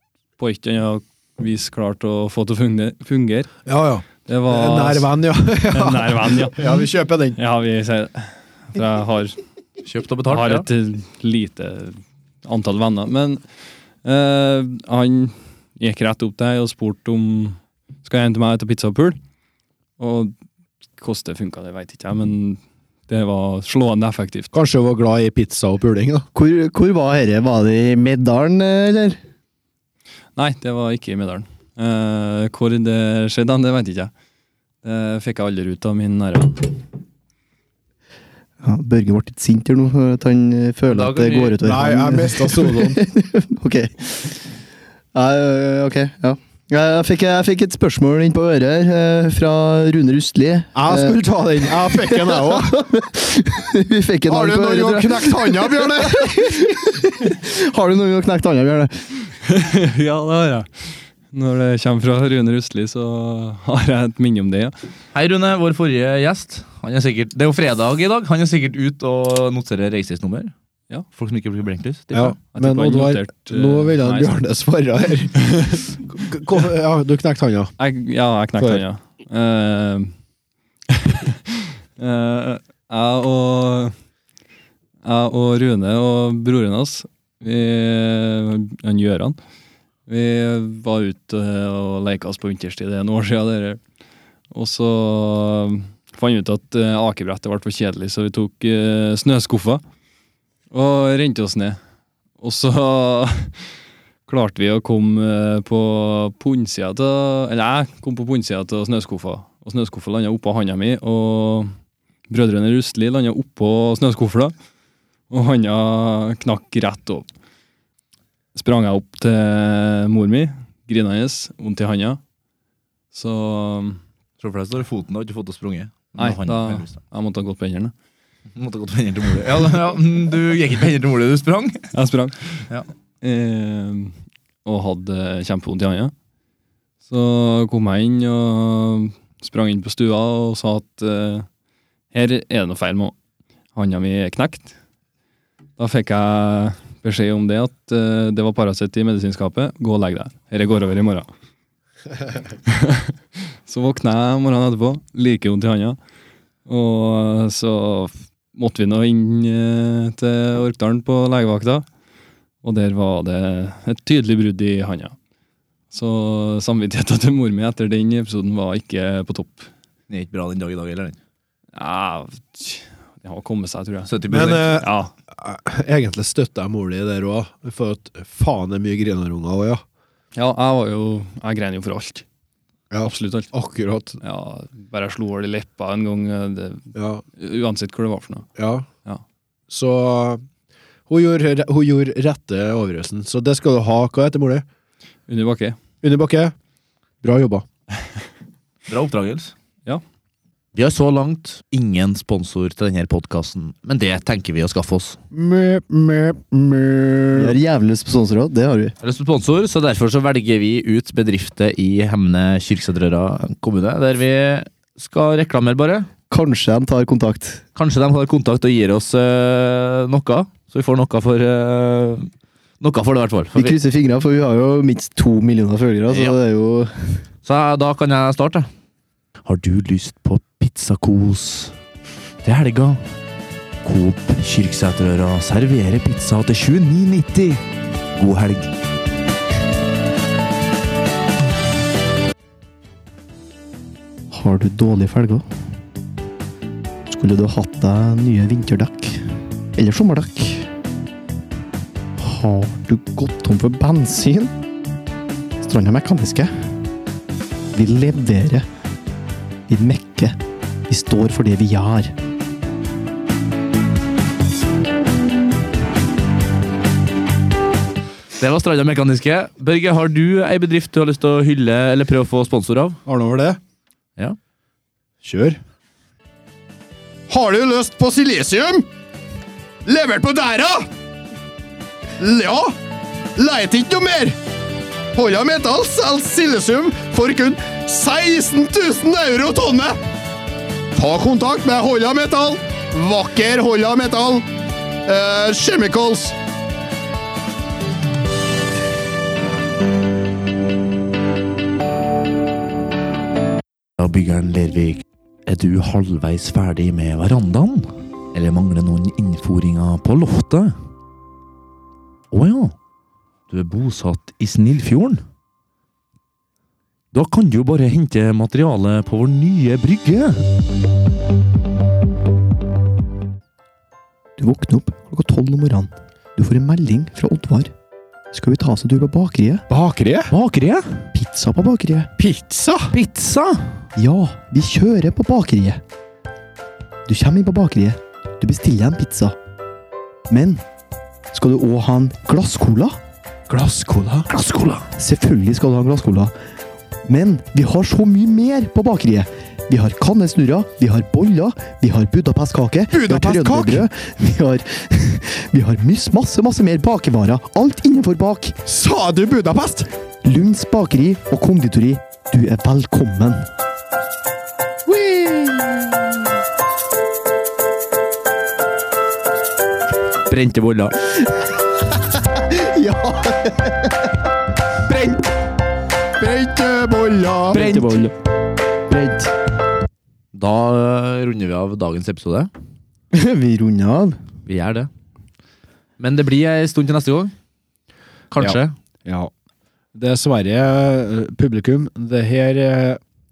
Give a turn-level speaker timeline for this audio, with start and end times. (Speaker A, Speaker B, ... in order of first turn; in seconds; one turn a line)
Speaker A: 0.4-3.5
Speaker B: 3.7-7.4
Speaker A: 4.3-5.1
Speaker A: 5.7-6.7
Speaker A: 7.4-9.4
Speaker C: 9.8-10.7
Speaker A: 10.3-13.4
Speaker A: 14.0-19.2
Speaker A: 20.0-20.3
Speaker A: 21.0-24.5
Speaker B: 24.5-26.3
Speaker D: 26.3-29.2
Speaker A: 30.4-34.1
Speaker A: 34.8-36.8
Speaker D: 38.6-44.4
Speaker C: 40.9-41.6
Speaker B: 41.6-43.0
Speaker D: 45.1-51.2
Speaker B: 50.8-52.9
Speaker D: 51.9-59.1
Speaker B: 54.3-56.5
Speaker A: 59.4-64.7
Speaker C: 65.1-70.5
Speaker C: 71.1-72.3
Speaker B: 72.1-77.7
Speaker A: 72.5-74.4
Speaker A: 77.8-80.1
Speaker B: 78.6-78.8
Speaker A: 80.9-84.0
Speaker A: 85.0-89.4
Speaker A: 90.1-93.8
Speaker A: 94.5-99.8
Speaker A: 100.7-101.8
Speaker A: 102.4-103.6
Speaker A: 104.3-111.7
Speaker A: 112.3-114.5
Speaker A: 115.3-117.3
Speaker A: 118.5-122.2
Speaker A: 123.1-124.0
Speaker C: 124.4-127.0
Speaker A: 126.2-127.9
Speaker C: 128.6-131.9
Speaker A: 131.9-132.6
Speaker A: 133.2-134.1
Speaker A: 134.7-136.1
Speaker A: 137.1-141.5
Speaker A: 142.1-143.2
Speaker A: 143.8-144.7
Speaker A: 145.8-151.3
Speaker A: 152.7-153.1
Speaker A: 153.7-156.0
Speaker A: 156.7-161.9
Speaker A: 162.6-165.2
Speaker A: 165.9-169.7
Speaker C: 170.1-171.2
Speaker A: 171.8-174.1
Speaker C: 174.1-174.8
Speaker B: 174.3-179.8
Speaker A: 174.7-175.1
Speaker A: 180.4-182.2
Speaker B: 182.9-184.2
Speaker A: 183.0-183.5
Speaker A: 184.2-188.5
Speaker B: 186.9-187.2
Speaker B: 188.6-188.9
Speaker B: 189.7-190.4
Speaker B: 191.1-194.6
Speaker A: 195.3-195.8
Speaker B: 196.0-196.5
Speaker B: 197.2-197.7
Speaker C: 198.9-199.5
Speaker C: 200.8-205.2
Speaker B: 205.3-207.6
Speaker D: 207.3-208.9
Speaker C: 209.0-216.1
Speaker D: 216.3-217.6
Speaker C: 217.8-222.3
Speaker C: 222.8-223.8
Speaker D: 223.6-227.2
Speaker C: 226.1-226.4
Speaker C: 227.4-228.7
Speaker C: 229.5-231.7
Speaker C: 232.4-233.0
Speaker C: 233.8-237.6
Speaker C: 238.2-238.7
Speaker D: 244.3-245.5
Speaker D: 247.1-249.2
Speaker D: 249.8-250.7
Speaker D: 252.2-254.5
Speaker D: 255.6-256.5
Speaker D: 257.7-258.7
Speaker D: 259.7-260.4
Speaker D: 260.9-262.1
Speaker C: 268.4-273.0
Speaker B: 273.1-273.6
Speaker B: 275.2-275.6
Speaker B: 277.3-278.9
Speaker B: 279.9-280.9
Speaker B: 282.2-282.8
Speaker B: 283.4-284.4
Speaker B: 285.1-290.0
Speaker B: 290.9-294.4
Speaker B: 295.1-296.4
Speaker C: 304.0-310.8
Speaker C: 312.3-312.8
Speaker C: 313.5-315.2
Speaker C: 317.1-320.4
Speaker D: 324.4-327.7
Speaker D: 328.3-329.6
Speaker B: 329.7-330.3
Speaker C: 330.3-331.0
Speaker D: 331.1-332.1
Speaker B: 332.2-332.9
Speaker C: 332.9-333.8
Speaker D: 334.0-335.8
Speaker D: 337.1-339.4
Speaker D: 340.3-340.6
Speaker D: 341.3-343.0
Speaker C: 344.3-344.9
Speaker D: 345.0-346.3
Speaker D: 347.1-358.6
Speaker B: 352.9-353.9
Speaker B: 358.7-359.9
Speaker D: 360.2-363.5
Speaker B: 364.9-365.4
Speaker C: 370.3-370.9
Speaker D: 372.2-373.9
Speaker B: 376.2-377.6
Speaker C: 377.5-378.1
Speaker D: 377.5-378.1
Speaker D: 378.9-379.3
Speaker C: 380.3-382.5
Speaker D: 383.1-384.2
Speaker C: 384.5-384.9
Speaker C: 386.0-387.3
Speaker C: 388.3-388.7
Speaker B: 388.4-389.3
Speaker B: 389.9-393.0